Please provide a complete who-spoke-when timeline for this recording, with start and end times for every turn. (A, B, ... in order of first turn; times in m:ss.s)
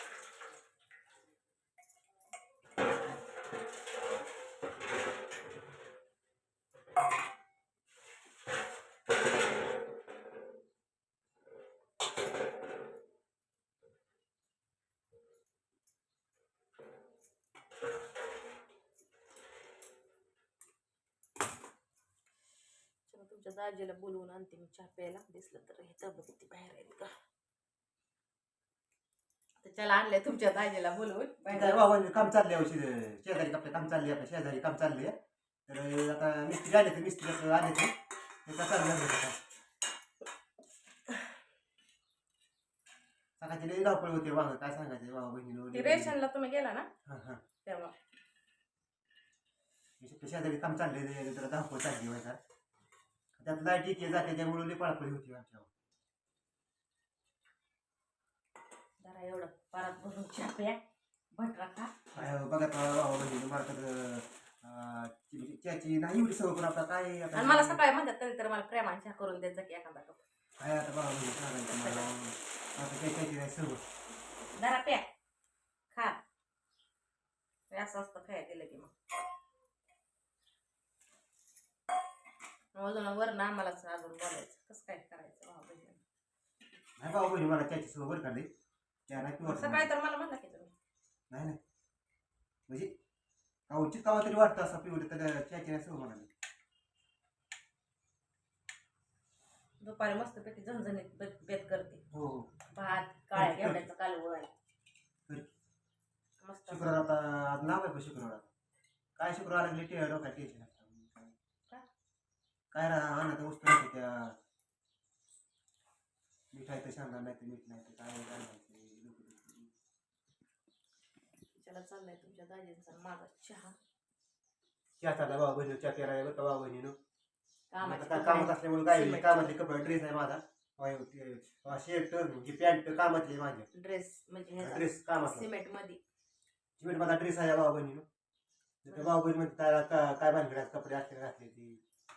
0:23.1-0:27.1 A
0:29.6-0:31.9 A
0:31.5-0:35.2 B
0:35.7-0:37.9 B
0:38.4-0:39.4 B
0:43.4-0:46.2 B
0:45.7-0:46.9 A
0:47.0-0:47.4 B
0:47.6-0:47.9 A
0:50.0-0:52.4 B
0:53.4-0:55.7 B
0:59.0-1:00.8 A
1:01.3-1:02.0 A
1:02.1-1:07.8 B
1:07.3-1:10.2 A
1:10.6-1:13.8 B
1:11.6-1:12.1 A
1:14.5-1:15.1 A
1:15.9-1:16.2 A
1:17.7-1:18.9 A
1:22.7-1:26.0 A
1:27.0-1:28.5 B
1:29.1-1:29.9 B
1:29.4-1:30.8 A
1:31.3-1:31.6 B
1:32.7-1:32.9 B
1:33.7-1:36.3 B
1:39.8-1:42.0 A
1:42.1-1:42.5 B
1:42.7-1:44.5 A
1:43.3-1:43.9 B
1:46.4-1:47.0 A
1:46.7-1:48.4 B
1:49.2-1:51.3 B
1:52.7-1:54.4 B
1:56.5-1:59.7 B
2:01.5-2:03.8 A
2:05.0-2:07.0 B
2:07.7-2:09.6 A
2:07.8-2:13.7 B
2:13.7-2:16.0 A
2:14.6-2:15.5 B
2:16.8-2:18.0 B
2:18.8-2:21.8 B
2:18.9-2:19.1 A